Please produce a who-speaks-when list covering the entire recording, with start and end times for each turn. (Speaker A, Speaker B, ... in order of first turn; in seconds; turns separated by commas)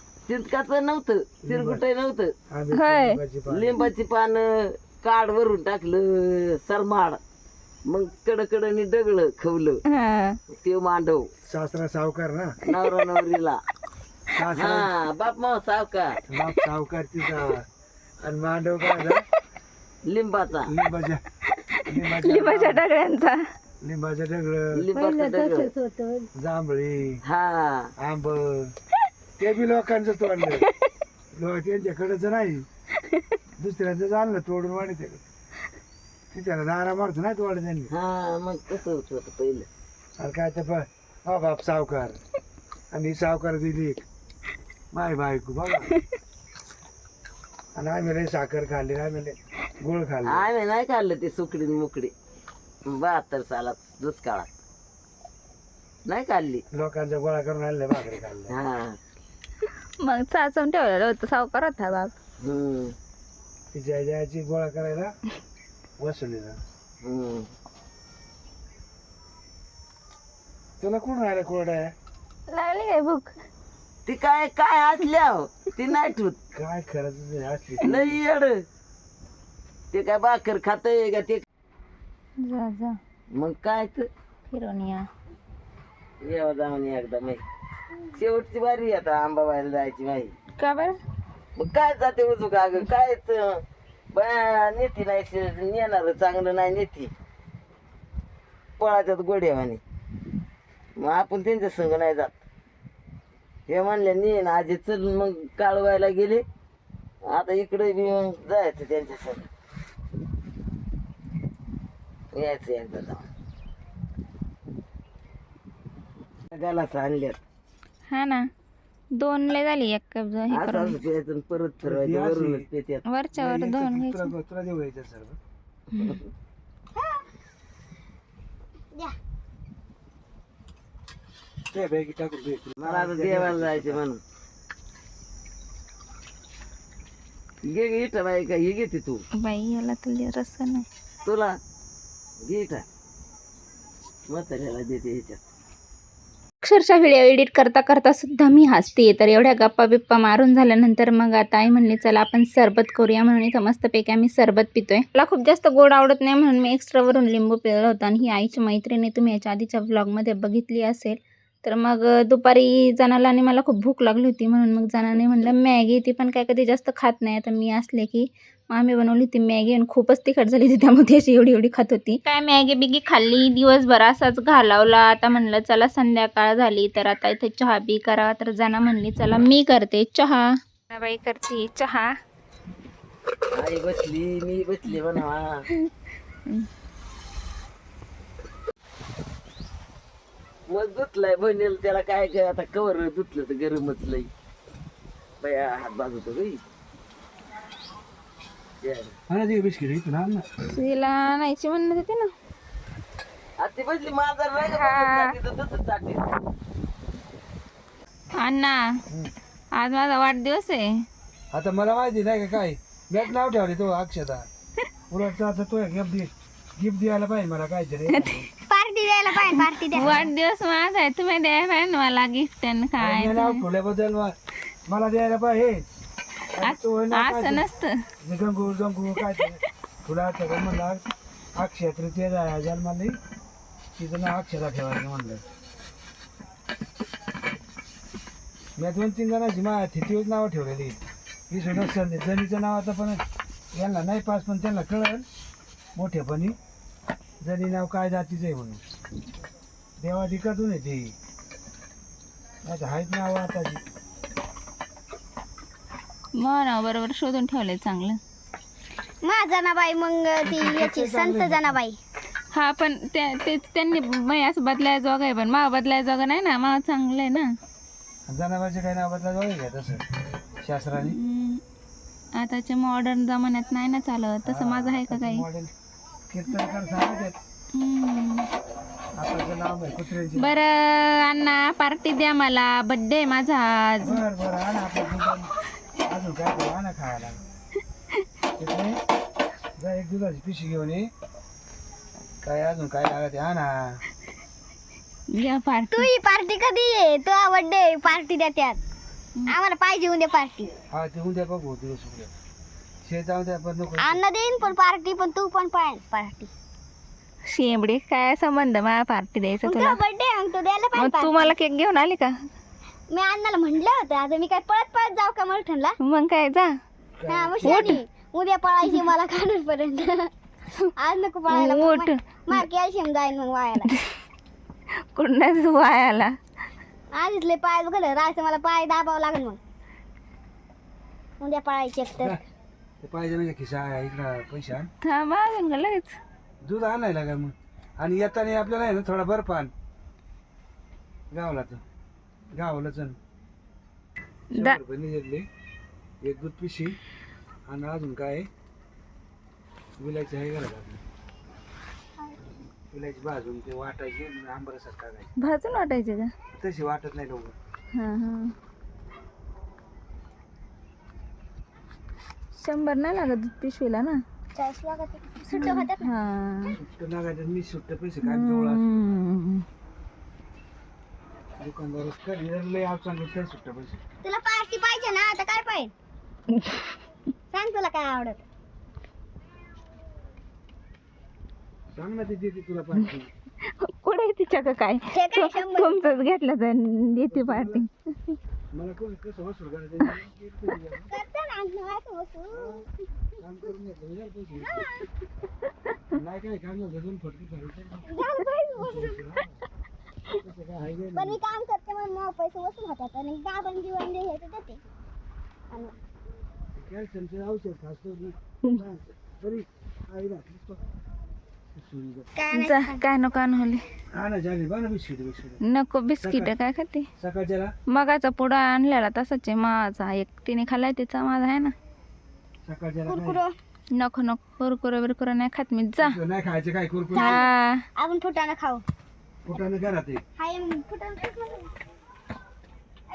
Speaker A: 0.3-2.3, Speaker B: 1.4-1.8, Speaker B: 2.5-3.8, Speaker C: 2.7-3.2, Speaker A: 3.5-7.2, Speaker A: 7.9-9.8, Speaker C: 9.9-10.4, Speaker A: 10.6-11.3, Speaker B: 11.5-12.5, Speaker A: 12.6-13.6, Speaker B: 14.3-14.9, Speaker A: 14.5-16.1, Speaker B: 16.2-17.7, Speaker B: 18.2-19.2, Speaker A: 20.1-20.7, Speaker B: 20.7-21.2, Speaker C: 21.6-23.4, Speaker B: 21.9-22.8, Speaker B: 23.8-24.8, Speaker A: 24.8-25.7, Speaker C: 24.9-26.3, Speaker B: 26.4-27.2, Speaker A: 27.2-27.9, Speaker B: 28.0-28.7, Speaker B: 29.4-30.7, Speaker B: 31.4-32.7, Speaker B: 33.6-35.2, Speaker B: 36.3-37.9, Speaker A: 37.9-39.7, Speaker B: 40.2-42.2, Speaker B: 42.9-44.0, Speaker B: 44.9-45.9, Speaker B: 47.8-50.5, Speaker A: 50.2-52.1, Speaker A: 52.9-54.5, Speaker A: 56.1-56.6, Speaker B: 56.7-58.5, Speaker A: 58.5-59.0, Speaker C: 60.0-62.1, Speaker A: 62.4-62.9, Speaker B: 63.7-65.1, Speaker B: 66.0-66.6, Speaker A: 67.0-67.5, Speaker B: 70.8-71.9, Speaker C: 72.5-73.3, Speaker A: 74.1-76.4, Speaker B: 76.5-78.2, Speaker A: 77.8-78.6, Speaker A: 79.9-81.4, Speaker C: 82.4-83.0, Speaker A: 83.3-84.1, Speaker C: 84.5-85.1, Speaker A: 86.2-87.4, Speaker A: 88.1-90.3, Speaker C: 90.6-91.0, Speaker A: 91.6-93.6, Speaker A: 94.1-97.1, Speaker A: 98.8-99.8, Speaker A: 101.0-102.4, Speaker A: 103.7-106.4, Speaker A: 107.3-109.5, Speaker A: 112.3-113.2, Speaker A: 116.5-117.4, Speaker C: 118.1-118.5, Speaker C: 119.2-121.0, Speaker A: 120.5-123.0, Speaker B: 121.8-122.7, Speaker C: 123.1-124.3, Speaker B: 123.3-125.4, Speaker A: 126.0-126.3, Speaker D: 126.9-127.2, Speaker B: 131.7-134.0, Speaker A: 132.8-134.2, Speaker A: 137.7-139.2, Speaker C: 139.4-140.8, Speaker A: 141.2-141.5, Speaker A: 142.4-142.8, Speaker A: 144.3-145.4, Speaker C: 146.6-182.1, Speaker A: 183.5-185.6, Speaker A: 190.7-194.3, Speaker A: 195.4-196.6, Speaker A: 198.8-199.2, Speaker B: 199.3-200.4, Speaker C: 200.7-202.3, Speaker A: 203.6-206.2, Speaker C: 204.7-205.3, Speaker C: 208.4-209.0, Speaker C: 209.7-211.0, Speaker B: 211.5-214.5, Speaker B: 215.1-218.5, Speaker D: 218.7-220.3, Speaker C: 219.5-223.6, Speaker B: 223.0-224.3, Speaker B: 224.9-225.8, Speaker B: 226.6-227.7, Speaker C: 226.6-227.9, Speaker B: 228.2-231.0, Speaker B: 231.6-233.2, Speaker B: 234.0-235.4, Speaker B: 238.8-243.2, Speaker B: 243.7-245.3, Speaker B: 245.9-246.6, Speaker B: 247.4-248.8, Speaker B: 250.0-251.2, Speaker B: 252.7-253.8, Speaker C: 256.4-258.2, Speaker D: 259.2-262.0, Speaker B: 260.4-261.8, Speaker C: 262.5-267.5, Speaker B: 268.3-270.0, Speaker B: 270.6-271.2, Speaker C: 271.0-271.6, Speaker C: 272.4-275.4, Speaker B: 274.4-275.7, Speaker B: 276.3-277.4, Speaker C: 277.7-278.5, Speaker B: 279.2-280.6, Speaker C: 280.4-284.2, Speaker B: 284.0-285.5, Speaker B: 286.1-287.4, Speaker B: 288.6-289.0, Speaker B: 289.8-291.1, Speaker B: 292.4-294.0, Speaker C: 295.3-296.1, Speaker D: 295.9-298.8, Speaker D: 299.5-300.7, Speaker B: 300.9-302.3, Speaker B: 303.0-304.2, Speaker D: 304.0-306.5, Speaker C: 307.5-310.0, Speaker D: 309.6-311.6, Speaker C: 310.9-312.3, Speaker D: 313.1-315.9, Speaker C: 316.0-316.7, Speaker B: 317.2-317.9, Speaker D: 317.3-320.3, Speaker C: 317.6-318.0, Speaker D: 321.0-323.9, Speaker C: 321.5-322.6, Speaker C: 325.1-326.3, Speaker D: 327.1-329.6, Speaker D: 331.4-332.4, Speaker B: 333.0-334.9, Speaker C: 335.0-336.2, Speaker B: 336.6-339.7, Speaker B: 341.3-341.8, Speaker B: 342.5-343.2, Speaker C: 344.5-344.8, Speaker B: 344.5-345.4, Speaker B: 346.2-346.9, Speaker B: 347.7-348.5, Speaker B: 350.0-351.0, Speaker B: 352.9-355.3, Speaker C: 355.4-356.3, Speaker B: 356.6-357.6, Speaker C: 357.9-358.5, Speaker C: 362.5-364.2, Speaker D: 364.6-366.1, Speaker C: 365.6-366.8, Speaker B: 366.7-369.0, Speaker C: 368.2-369.6, Speaker B: 371.6-374.0, Speaker D: 374.2-375.9, Speaker C: 376.5-376.9, Speaker D: 377.5-378.4, Speaker B: 381.9-383.3, Speaker C: 383.8-387.9, Speaker D: 385.1-386.1, Speaker B: 387.3-387.8, Speaker B: 388.7-391.2, Speaker D: 391.1-392.8, Speaker B: 392.5-392.8, Speaker B: 393.4-394.9, Speaker D: 394.6-394.9, Speaker B: 396.1-398.1, Speaker D: 398.1-399.2, Speaker B: 398.8-399.6, Speaker B: 400.4-401.4, Speaker D: 401.1-404.8, Speaker B: 406.8-410.8, Speaker B: 411.8-412.3, Speaker D: 412.4-413.0, Speaker C: 412.5-413.8, Speaker B: 414.1-415.6, Speaker C: 415.6-417.1, Speaker B: 416.2-416.5, Speaker B: 417.2-417.7, Speaker C: 417.9-421.7, Speaker B: 422.6-423.4, Speaker D: 423.1-423.6, Speaker C: 423.9-426.2, Speaker B: 426.0-427.4, Speaker D: 427.2-427.4, Speaker C: 427.2-427.8, Speaker D: 428.0-428.8, Speaker B: 429.4-430.2, Speaker D: 430.4-431.7